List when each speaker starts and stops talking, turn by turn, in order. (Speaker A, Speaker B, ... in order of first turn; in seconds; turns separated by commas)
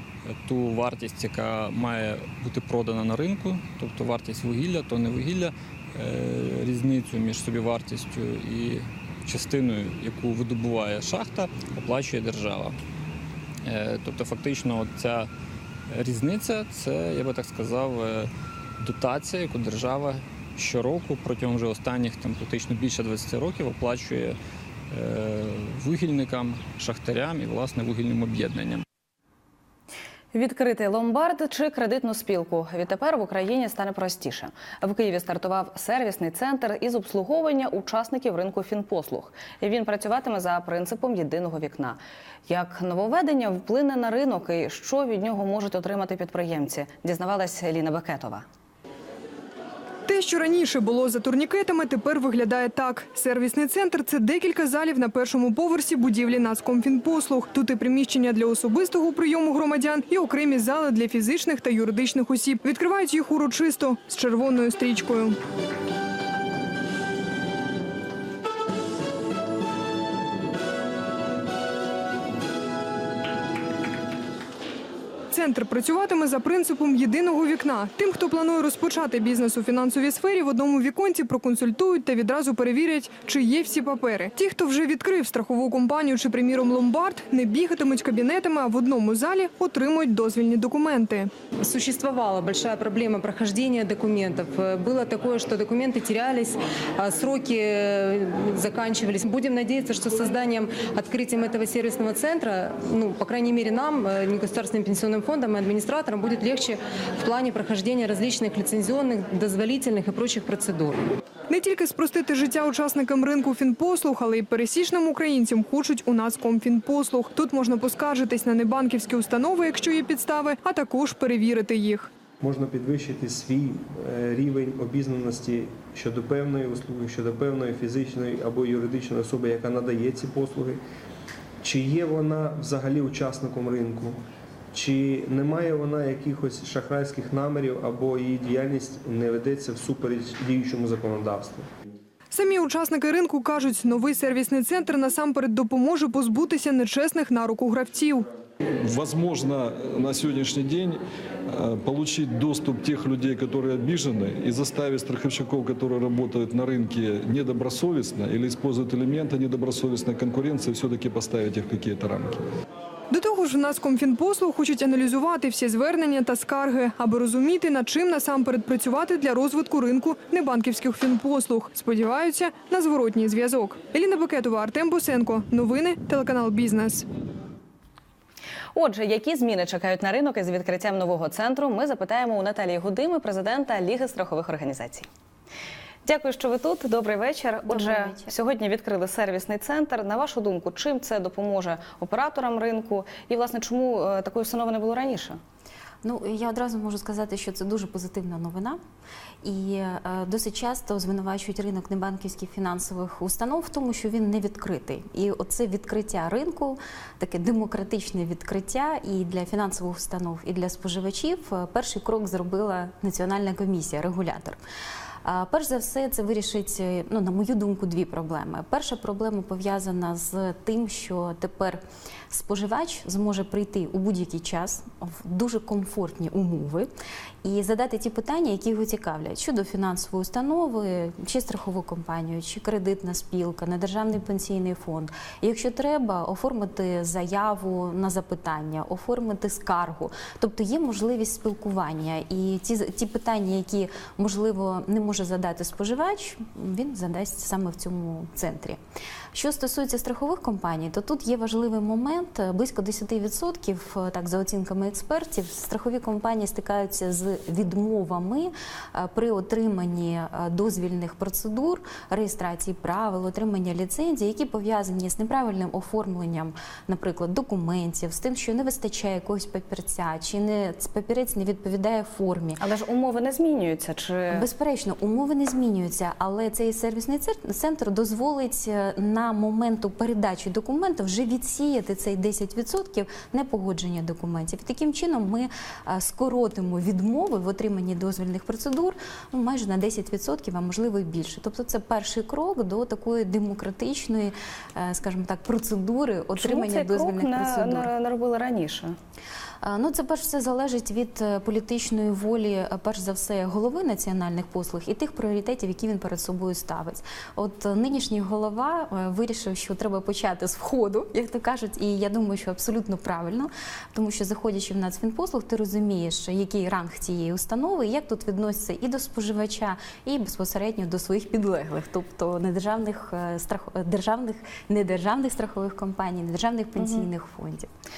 Speaker A: 0.3-12.8, Speaker A: 13.6-15.3, Speaker A: 15.9-24.4, Speaker A: 24.9-28.8, Speaker B: 30.3-48.4, Speaker C: 50.1-65.4, Speaker C: 75.3-91.3, Speaker D: 91.6-111.0, Speaker C: 111.5-122.1, Speaker E: 122.4-130.8, Speaker E: 131.6-134.2, Speaker E: 134.7-141.7, Speaker C: 142.3-148.3, Speaker F: 148.8-162.4, Speaker C: 163.1-177.1, Speaker B: 178.8-185.1, Speaker B: 186.0-195.4, Speaker G: 187.7-188.3, Speaker G: 196.0-198.8, Speaker G: 199.4-214.6, Speaker G: 215.2-226.9, Speaker G: 227.4-248.8, Speaker G: 249.3-272.6, Speaker B: 272.6-274.4, Speaker G: 274.3-297.9, Speaker B: 296.4-298.9, Speaker G: 299.6-327.7, Speaker B: 326.8-327.1